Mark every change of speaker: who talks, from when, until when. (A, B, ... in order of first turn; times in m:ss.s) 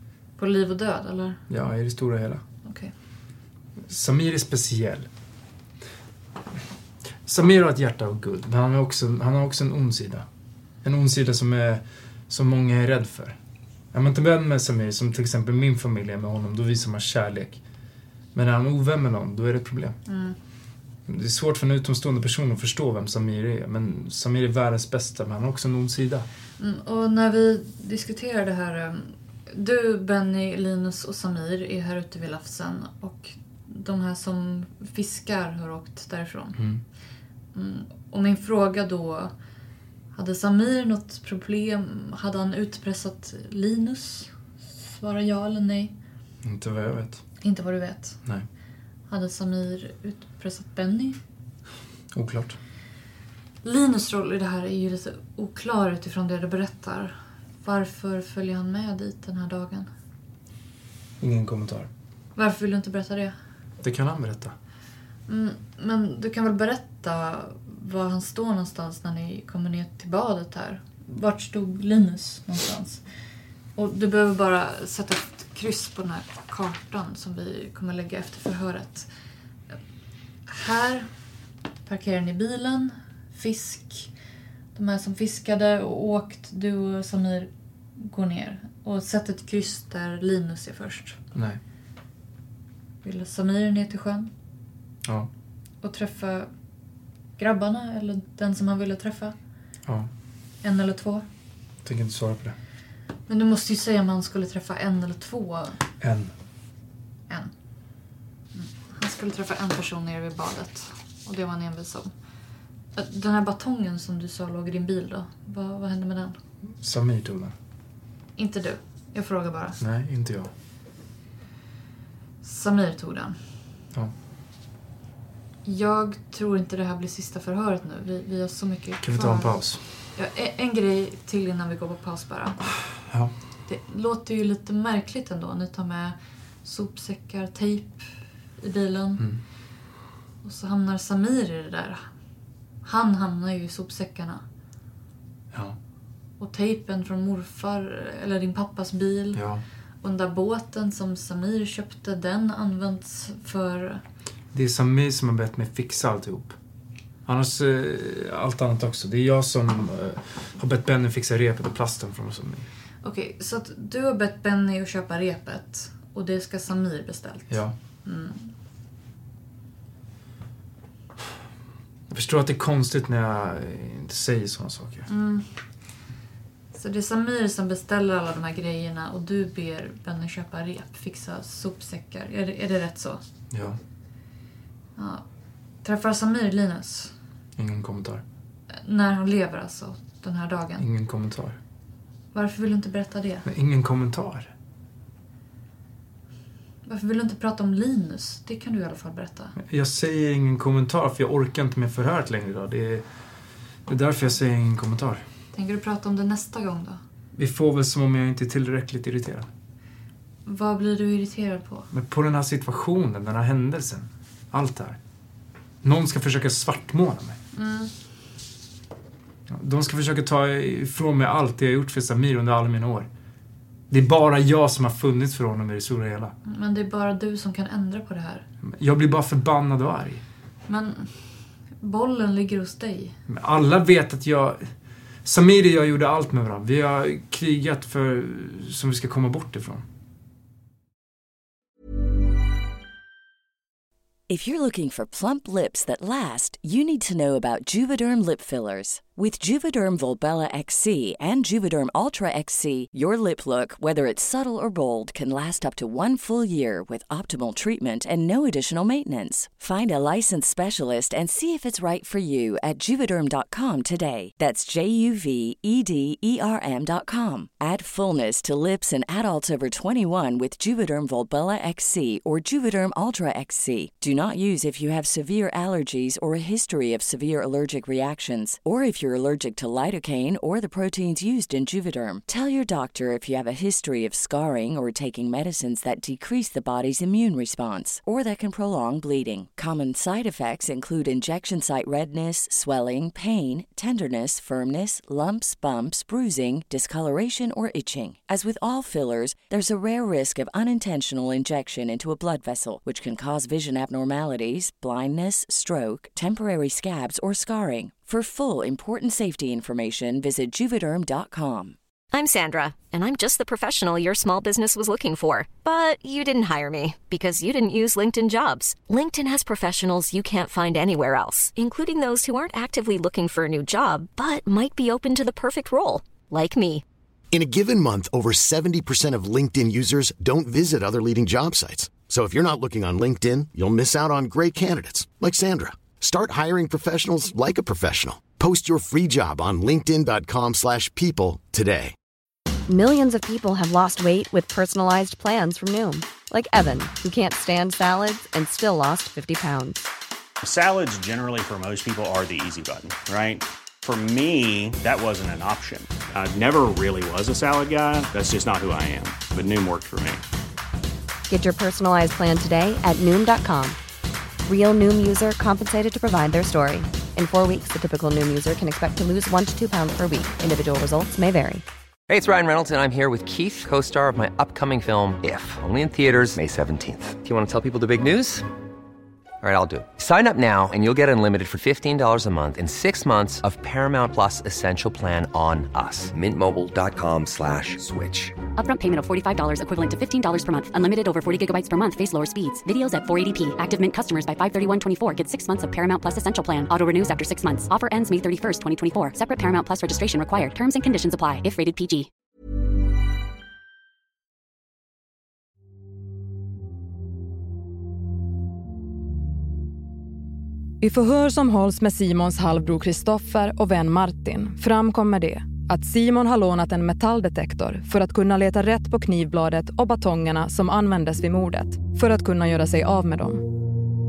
0:00.4-0:01.4 A
0:01.5-0:02.4 B
0:02.6-0:02.9 A
0:03.9-0:05.1 B
0:07.2-0:10.2 B
0:10.8-0:13.4 B
0:13.9-0:17.6 B
0:18.3-0:20.0 B
0:20.1-0:20.4 A
0:21.1-0:26.3 B
0:26.6-0:36.6 A
0:36.6-0:36.8 B
0:37.5-0:39.3 A
0:40.1-0:45.9 A
0:46.4-0:47.2 B
0:47.4-0:48.2 A
0:49.1-0:51.2 A
0:52.1-0:52.6 B
0:53.6-0:59.9 A
1:01.2-1:01.9 B
1:02.4-1:03.3 A
1:03.8-1:04.5 B
1:05.3-1:13.2 A
1:13.7-1:19.1 A
1:20.5-1:21.1 A
1:21.8-1:24.1 A
1:24.7-1:31.2 A
1:31.3-1:31.6 B
1:33.0-1:34.3 A
1:35.0-1:35.3 B
1:35.8-1:36.5 A
1:37.4-1:39.3 A
1:40.6-1:41.2 A
1:41.8-1:42.6 B
1:43.3-1:45.8 A
1:46.0-1:46.3 B
1:48.5-1:52.1 A
1:53.0-1:56.4 A
1:56.8-1:57.5 B
1:58.4-1:59.8 A
1:59.8-2:00.5 B
2:02.4-2:03.4 A
2:05.6-2:12.7 A
2:09.0-2:09.8 B
2:13.1-2:13.3 B
2:13.7-2:19.2 A
2:20.4-2:22.1 A
2:22.8-2:24.4 A
2:25.5-2:25.8 B
2:26.4-2:29.4 A
2:29.3-2:29.6 B
2:30.0-2:34.0 A
2:34.5-2:36.6 B
2:37.2-2:42.7 B
2:43.0-2:48.5 A
2:52.1-2:55.0 B
2:55.1-2:55.5 A
2:56.7-3:03.2 A
3:03.5-3:03.8 B
3:05.0-3:05.2 A
3:05.8-3:07.2 A
3:07.6-3:08.2 B
3:08.7-3:10.8 A
3:10.8-3:11.6 B
3:12.3-3:13.4 A
3:13.4-3:14.5 B
3:16.8-3:19.5 A
3:19.6-3:23.1 B
3:23.9-3:25.2 B
3:25.5-3:27.0 A
3:27.3-3:29.5 B
3:30.4-3:31.9 A
3:31.9-3:35.0 B
3:35.8-3:37.4 B
3:37.5-3:37.9 A
3:39.5-3:43.1 B
3:43.9-3:46.3 B
3:46.4-3:48.4 A
3:48.6-3:50.2 B
3:50.7-3:53.2 A
3:53.3-3:54.7 B
3:55.2-3:59.8 B
4:04.3-5:11.8 C
5:12.1-5:26.8 D
5:27.3-5:41.9 E
5:42.7-5:49.8 F
5:50.4-6:00.2 G
6:01.3-6:03.8 F
6:04.4-6:11.6 F
6:12.1-6:18.4 H
6:19.4-6:28.4 H
6:28.6-6:42.1 I
6:50.8-7:03.4 J